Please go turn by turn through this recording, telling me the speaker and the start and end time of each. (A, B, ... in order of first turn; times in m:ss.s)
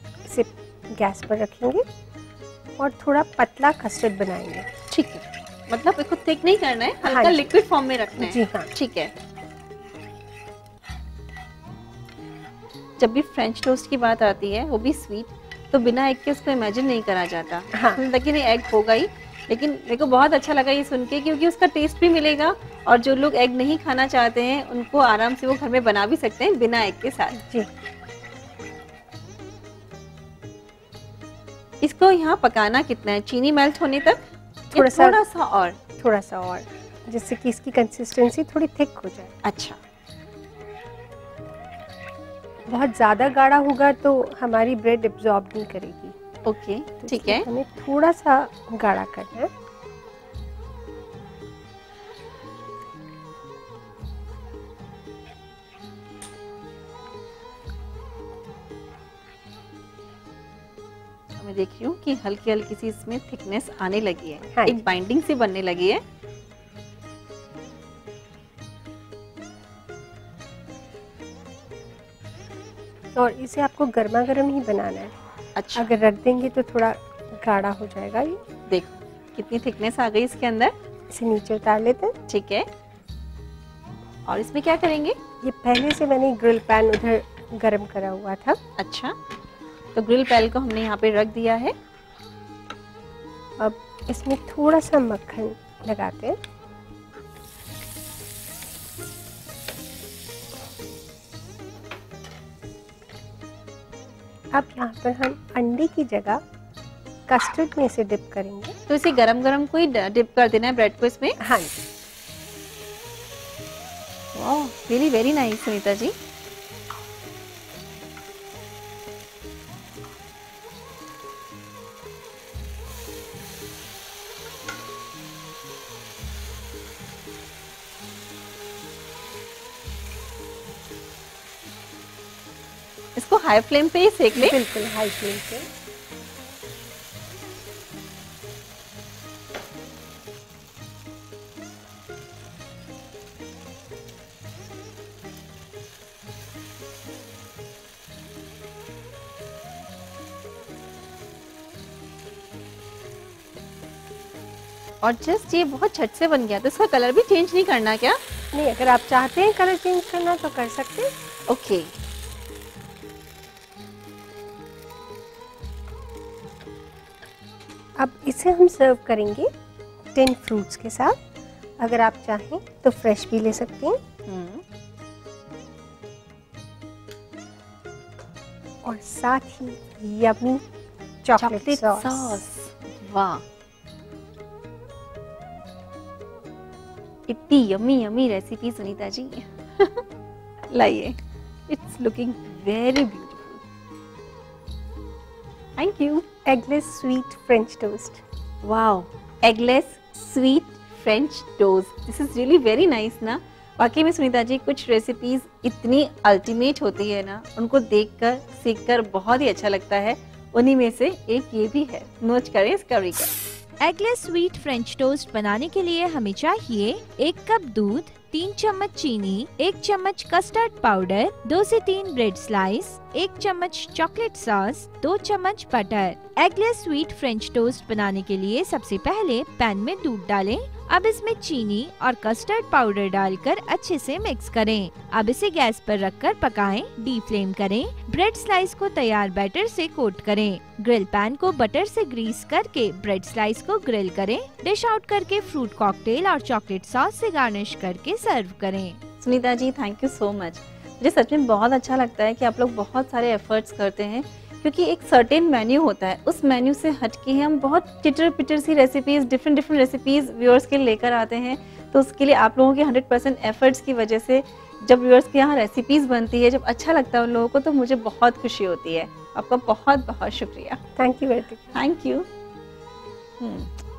0:00.3-0:01.8 A
0:02.8-0:04.7 A
0:04.9-0:09.1 B
0:07.0-0:07.5 A
0:08.2-0:08.7 A
0:13.0-0:27.4 B
0:17.7-0:18.0 A
0:31.8-0:35.8 B
0:34.7-0:35.2 A
0:36.0-0:39.4 A
0:39.4-0:39.8 B
0:42.7-0:46.2 A
0:46.5-0:47.5 B
0:47.0-0:49.5 A
1:01.4-1:06.0 B
1:04.6-1:04.8 A
1:13.2-1:15.1 A
1:15.6-1:16.0 B
1:15.8-1:18.4 A
1:18.7-1:20.7 B
1:21.1-1:22.2 A
1:22.3-1:22.6 B
1:24.3-1:25.2 B
1:25.4-1:28.6 A
1:28.8-1:29.2 B
1:30.0-1:31.7 B
1:33.6-1:36.4 A
1:44.5-1:46.4 A
1:47.3-1:48.8 A
1:48.9-1:51.4 B
1:51.4-1:51.7 A
1:54.4-1:56.1 B
2:13.2-2:14.6 B
2:14.4-2:15.7 A
2:35.0-2:38.2 B
2:38.5-2:41.1 A
2:41.5-2:41.9 B
2:48.0-2:49.5 A
2:50.2-2:51.2 A
2:51.8-2:54.0 A
2:54.3-2:54.6 B
2:58.8-3:00.6 A
3:01.2-3:02.4 A
3:01.4-3:03.4 B
3:07.3-3:10.0 B
3:10.7-3:11.2 B
3:11.7-3:13.6 B
3:15.8-3:16.3 B
3:16.5-3:18.2 A
3:18.6-3:33.3 B
3:33.8-4:09.0 C
4:09.2-4:30.8 B
4:31.0-4:31.8 A
4:31.7-4:32.3 B
4:33.4-4:33.7 B